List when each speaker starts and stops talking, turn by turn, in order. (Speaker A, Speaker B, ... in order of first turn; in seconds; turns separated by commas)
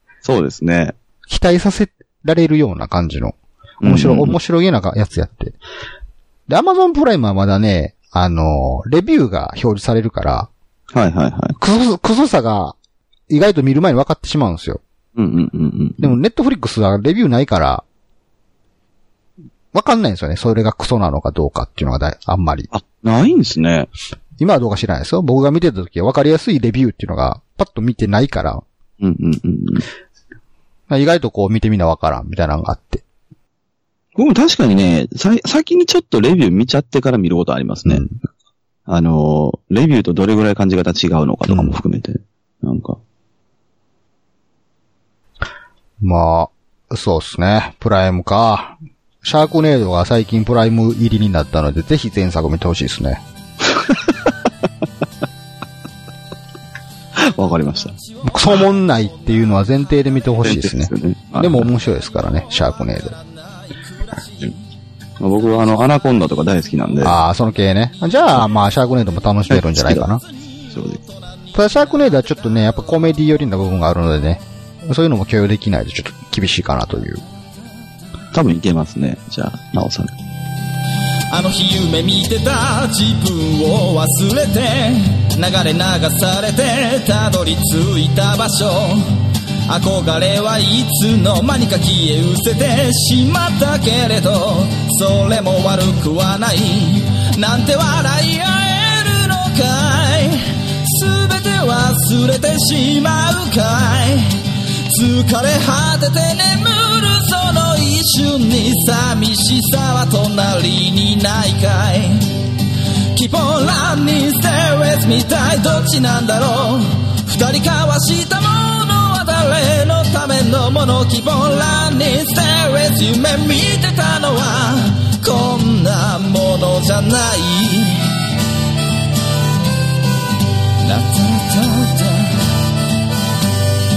Speaker A: 0.2-0.9, Speaker B: 1.3-5.6, Speaker A: 3.8-4.4, Speaker B: 6.5-10.5, Speaker A: 10.9-11.6, Speaker B: 11.6-12.8, Speaker B: 13.3-14.8, Speaker A: 15.2-16.2, Speaker B: 16.0-17.8, Speaker B: 19.7-22.7, Speaker A: 22.7-23.9, Speaker B: 24.4-28.6, Speaker A: 29.0-29.9, Speaker B: 30.9-33.0, Speaker A: 34.1-38.0, Speaker B: 37.8-38.1, Speaker A: 38.9-43.0, Speaker B: 41.5-41.8, Speaker B: 46.0-53.2, Speaker A: 53.9-54.1, Speaker A: 57.2-58.0, Speaker B: 58.2-63.2, Speaker A: 60.4-61.7, Speaker A: 65.2-67.2, Speaker B: 67.0-70.2, Speaker A: 69.5-70.0, Speaker A: 70.7-71.0, Speaker B: 71.5-77.2, Speaker A: 78.3-80.1, Speaker C: 81.3-89.1, Speaker C: 89.7-112.5, Speaker C: 113.1-128.2, Speaker C: 130.8-132.5